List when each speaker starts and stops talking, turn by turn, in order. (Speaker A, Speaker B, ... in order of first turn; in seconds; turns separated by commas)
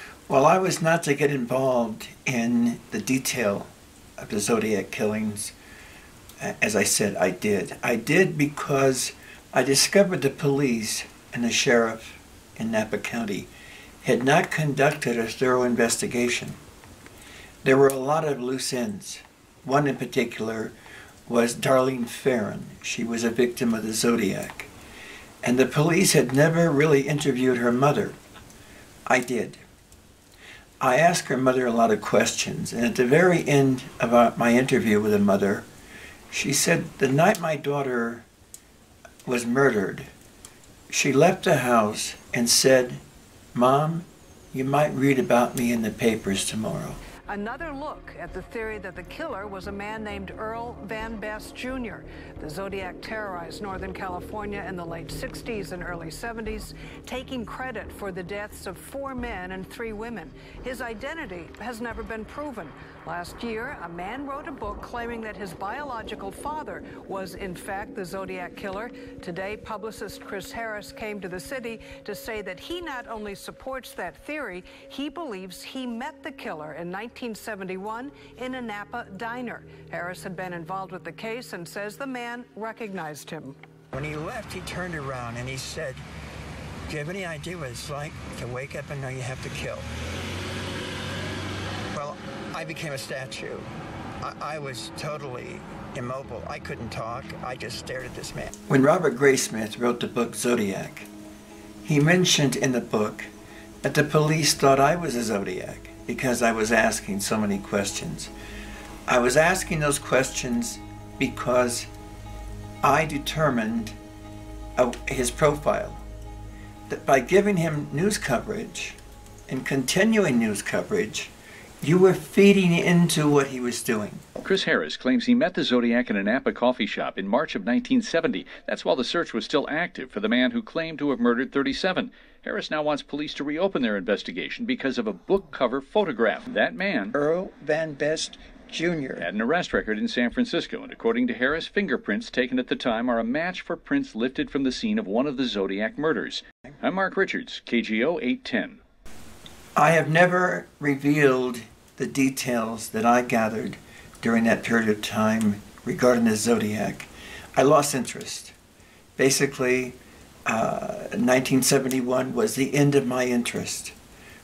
Speaker A: 0.3-5.5, Speaker A: 6.4-13.5, Speaker A: 14.0-16.6, Speaker A: 17.6-20.8, Speaker A: 21.3-24.7, Speaker A: 25.4-28.2, Speaker A: 29.1-29.6, Speaker A: 30.8-35.7, Speaker A: 36.3-38.3, Speaker A: 39.3-40.1, Speaker A: 40.9-43.0, Speaker A: 43.5-47.0, Speaker B: 47.3-83.6, Speaker A: 83.9-86.1, Speaker A: 86.9-89.9, Speaker A: 91.9-93.7, Speaker A: 94.2-101.1, Speaker A: 101.8-103.3, Speaker A: 103.8-108.3, Speaker A: 109.1-111.9, Speaker A: 112.8-114.0, Speaker A: 114.8-116.0, Speaker A: 116.9-124.2, Speaker C: 124.4-137.2, Speaker A: 137.1-139.3, Speaker C: 139.2-148.8, Speaker A: 149.8-158.5, Speaker A: 159.2-164.0